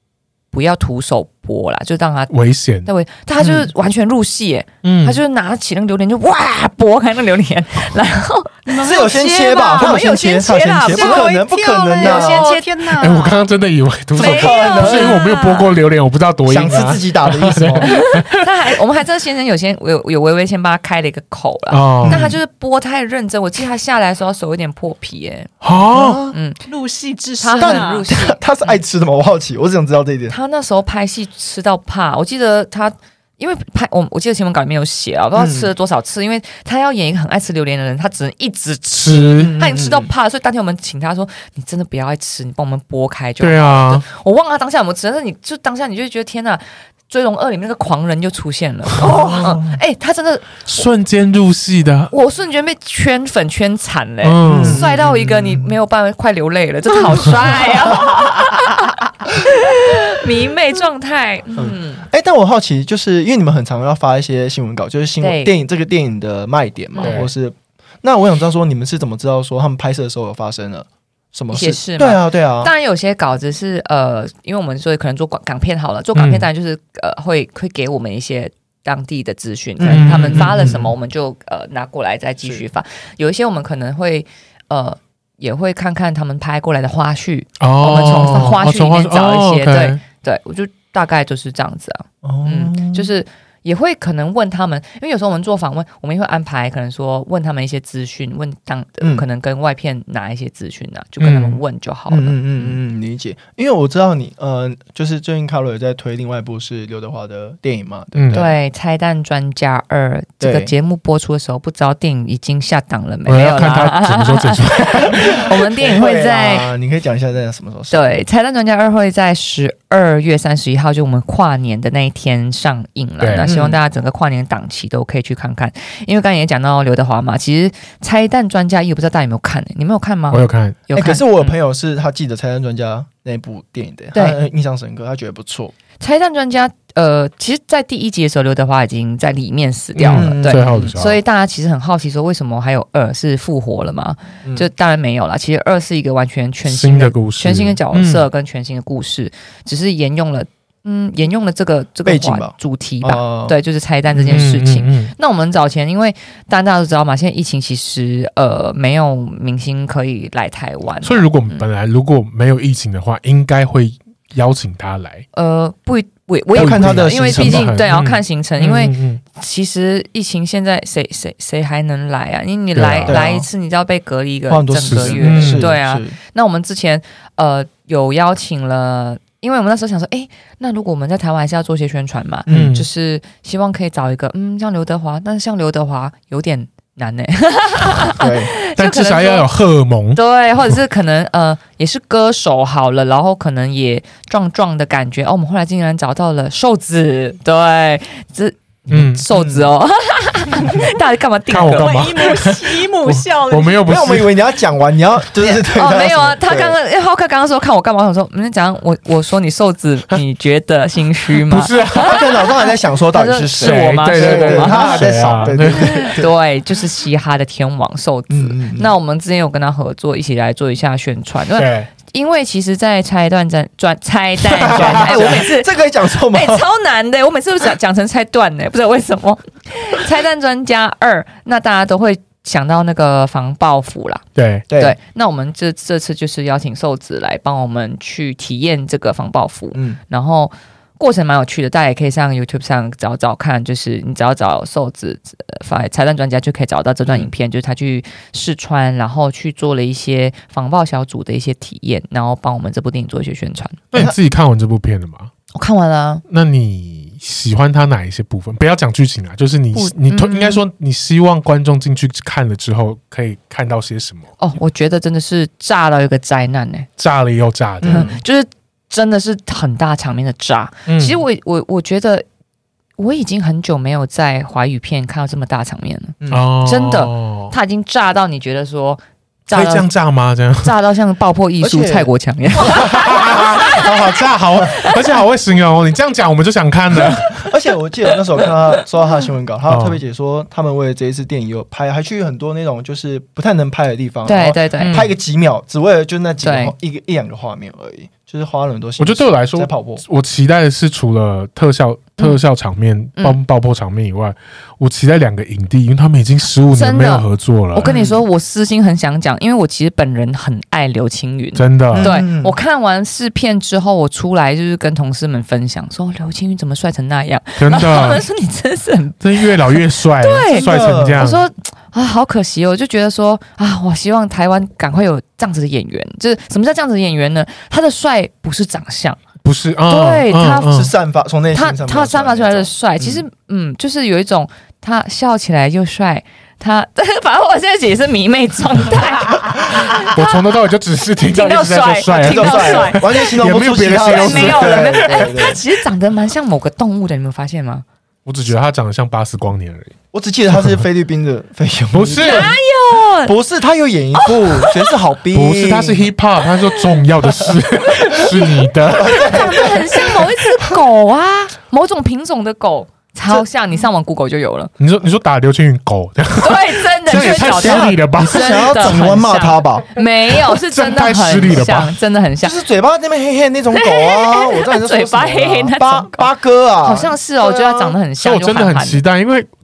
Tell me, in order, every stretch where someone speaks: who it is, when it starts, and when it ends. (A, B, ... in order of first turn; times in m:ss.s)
0:00.5-0:02.3 A
0:02.3-0:02.9 B
0:02.8-0:09.1 A
0:03.4-0:03.7 C
0:04.8-0:05.2 B
0:08.7-0:10.0 D
0:08.8-0:12.5 C
0:09.7-0:11.4 A
0:10.9-0:13.4 D
0:11.9-0:12.9 A
0:13.0-0:18.4 B
0:14.2-0:15.7 A
0:14.2-0:15.2 C
0:16.4-0:18.0 C
0:17.8-0:25.5 A
0:21.7-0:22.3 B
0:22.0-0:22.4 C
0:25.6-0:26.2 B
0:25.9-0:26.3 C
0:26.3-0:26.6 A
0:26.6-0:28.3 D
0:27.4-0:28.7 A
0:27.6-0:30.3 C
0:30.3-0:50.7 A
0:35.3-0:35.7 C
0:38.9-0:39.5 B
0:39.1-0:40.1 C
0:43.4-0:44.0 B
0:49.1-0:49.4 B
0:49.2-0:49.8 C
0:50.6-0:52.1 B
0:52.1-1:02.0 A
0:54.2-0:54.8 B
0:54.4-0:55.7 C
0:57.7-0:58.2 C
1:01.6-1:12.7 C
1:05.2-1:05.5 A
1:07.0-1:07.2 A
1:07.0-1:07.3 B
1:11.5-1:42.7 A
1:16.2-1:16.4 B
1:19.8-1:20.9 C
1:19.9-1:20.8 B
1:27.6-1:30.0 B
1:32.2-1:33.1 C
1:41.2-1:41.6 B
1:42.1-1:48.5 C
1:48.1-1:48.4 B
1:48.3-1:56.7 A
1:50.4-1:50.7 C
1:53.3-1:55.5 B
1:55.1-1:58.2 C
1:57.9-2:11.5 A
2:03.2-2:03.5 B
2:03.4-2:03.8 C
2:10.3-2:10.8 B
2:10.9-2:15.7 C
2:16.0-2:41.6 A
2:20.0-2:21.2 B
2:20.1-2:20.9 C
2:26.6-2:28.2 B
2:32.0-2:33.6 C
2:34.1-2:34.4 C
2:34.2-2:35.1 B
2:41.0-2:45.2 B
2:45.3-3:09.5 A
2:46.5-2:47.8 C
2:46.5-2:49.2 B
2:52.7-2:53.2 B
2:53.0-2:53.4 C
2:54.5-2:56.2 C
2:54.8-2:55.7 B
3:02.5-3:02.8 C
3:02.5-3:02.9 B
3:08.2-3:08.5 C
3:08.7-3:10.2 B
3:10.1-3:22.1 A
3:18.9-3:19.2 B
3:19.3-3:19.7 C
3:21.5-3:24.3 B
3:21.6-3:23.9 D
3:23.8-3:26.8 C
3:25.4-4:13.9 A
3:31.4-3:32.4 B
3:31.9-3:36.3 C
3:33.6-3:36.2 B
3:38.3-3:38.9 C
3:41.6-3:41.9 B
3:44.5-3:46.6 C
3:44.7-3:45.4 B
3:54.4-3:54.6 B
3:54.7-3:55.0 C
3:59.7-4:00.0 C
4:13.9-4:15.3 B
4:15.5-4:16.2 A
4:16.3-4:24.3 B
4:19.7-4:20.6 A
4:24.4-4:26.9 A
4:27.0-4:28.1 B
4:27.8-4:28.2 C
4:27.9-4:32.2 A
4:30.9-4:31.2 B
4:33.0-4:39.9 A
4:36.2-4:36.4 C
4:36.3-4:37.5 B
4:39.5-4:40.7 B
4:40.6-4:45.2 A
4:41.6-4:42.1 C
4:42.6-4:47.5 B
4:42.6-4:43.5 C
4:47.4-5:00.0 C
4:49.7-4:50.0 B
4:54.2-4:55.1 A
4:56.4-4:56.7 A
4:59.0-5:07.9 B
5:06.7-5:29.2 A
5:07.8-5:08.2 C
5:11.5-5:12.2 B
5:11.9-5:12.6 C
5:17.6-5:18.2 B
5:19.2-5:21.4 B
5:20.5-5:21.4 C
5:29.4-5:30.9 B
5:29.9-5:30.7 A
5:30.7-5:33.2 C
5:31.5-5:40.4 A
5:39.9-5:45.4 B
5:41.2-5:43.3 A
5:42.1-5:45.6 C
5:44.0-5:47.8 A
5:48.2-5:49.9 B
5:50.1-5:52.6 C
5:51.9-5:52.5 B
5:52.2-5:53.3 A
5:53.2-5:56.1 C
5:54.2-5:54.9 A
5:55.3-5:59.7 B
5:58.0-6:04.7 A
5:58.9-6:00.2 C
6:04.8-6:09.0 B
6:06.4-6:12.6 A
6:07.1-6:10.0 C
6:10.5-6:11.9 B
6:12.4-6:18.0 C
6:13.7-6:16.3 A
6:16.8-6:19.0 A
6:18.2-6:19.5 B